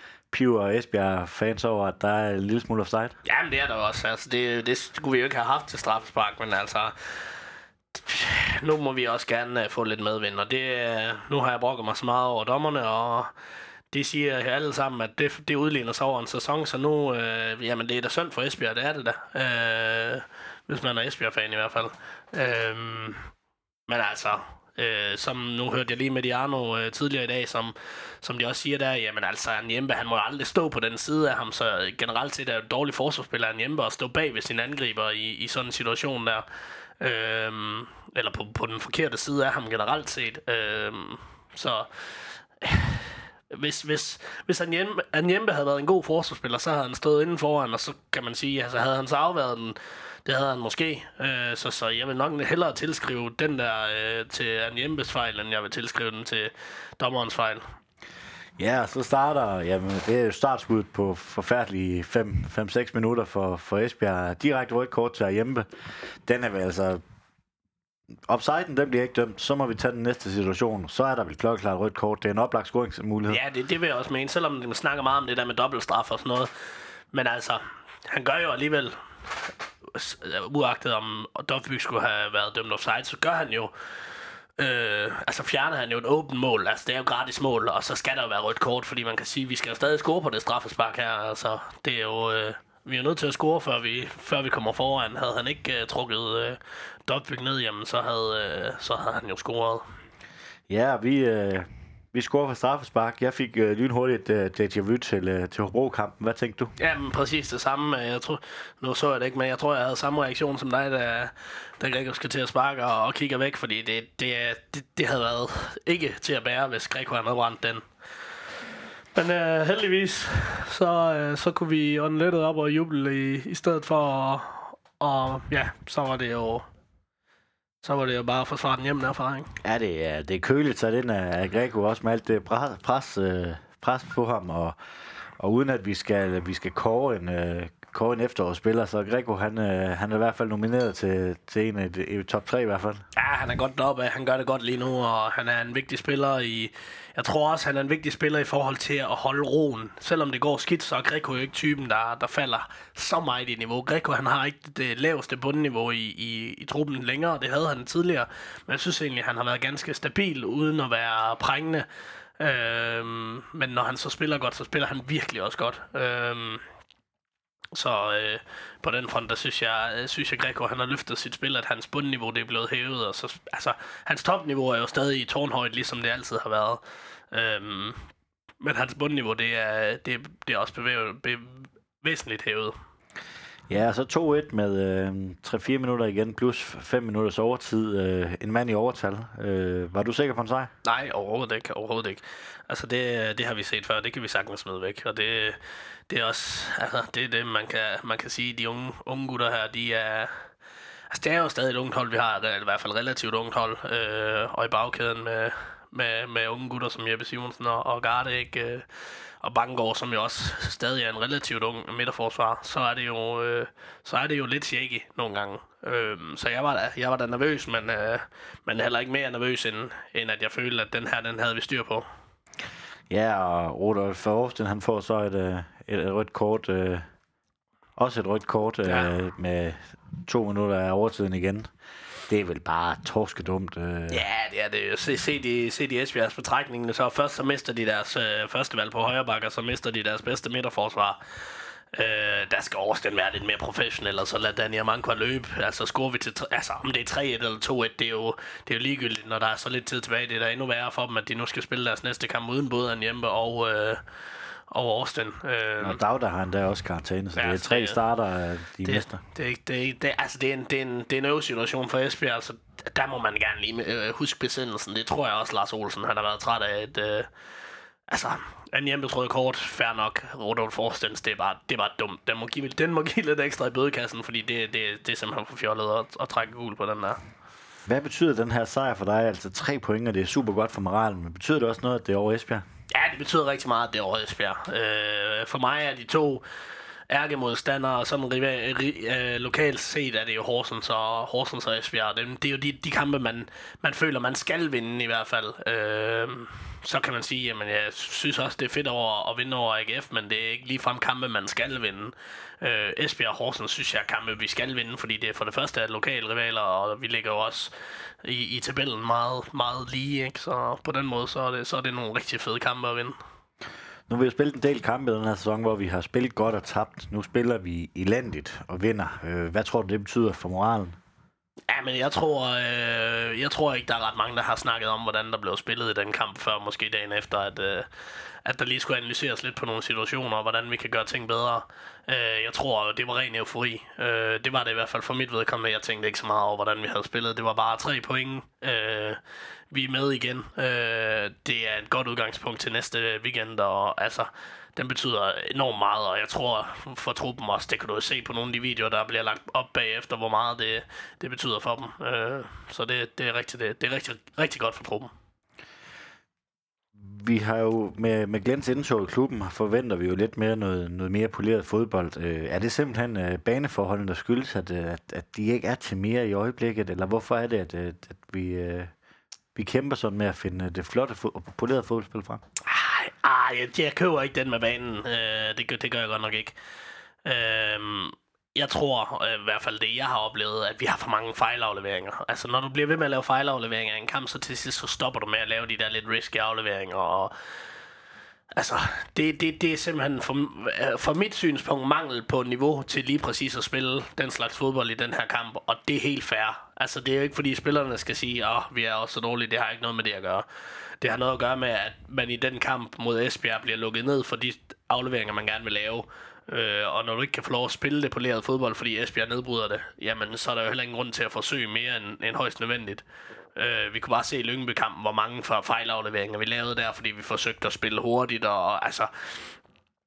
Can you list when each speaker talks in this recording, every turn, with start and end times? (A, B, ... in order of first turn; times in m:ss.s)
0:00.3-0:03.2 A
0:03.2-0:06.9 B
0:07.9-0:13.3 B
0:13.9-0:23.2 B
0:23.9-0:36.4 B
0:37.0-0:57.6 B
0:58.6-1:05.7 A
1:06.2-1:07.0 A
1:08.3-1:13.4 A
1:13.3-1:16.5 B
1:17.1-1:19.0 B
1:19.9-1:23.7 B
1:24.6-1:39.8 B
1:40.7-1:46.7 A
1:46.8-1:57.8 B
1:59.1-2:06.6 B
2:07.8-2:09.5 B
2:09.6-2:14.8 A
2:15.4-2:23.0 A
2:23.2-2:41.9 B
2:42.4-2:46.6 B
2:47.7-2:58.0 B
2:58.6-3:02.7 B
3:03.7-3:10.7 A
3:10.8-3:20.4 B
3:21.1-3:28.9 B
3:29.4-3:42.0 B
3:43.1-3:47.1 A
3:48.0-3:51.7 A
3:48.8-3:49.1 B
3:52.3-3:54.2 A
3:54.1-4:01.2 B
4:01.9-4:14.0 B
4:14.7-4:16.0 B
4:15.8-4:19.2 A
4:17.4-4:18.0 B
4:18.8-4:27.3 B
4:28.1-4:37.2 B
4:37.9-4:42.6 A
4:42.9-4:46.4 B
4:47.1-5:07.7 B
5:08.2-5:13.1 B
5:14.1-5:21.0 A
5:21.7-5:27.9 B
5:28.4-5:39.2 B
5:39.7-5:55.1 B
5:57.0-6:08.9 A
6:09.5-6:12.4 A
6:12.6-6:16.5 B
6:17.2-6:27.3 B
6:28.6-6:40.4 B
6:41.0-6:53.0 B
6:53.6-6:59.5 B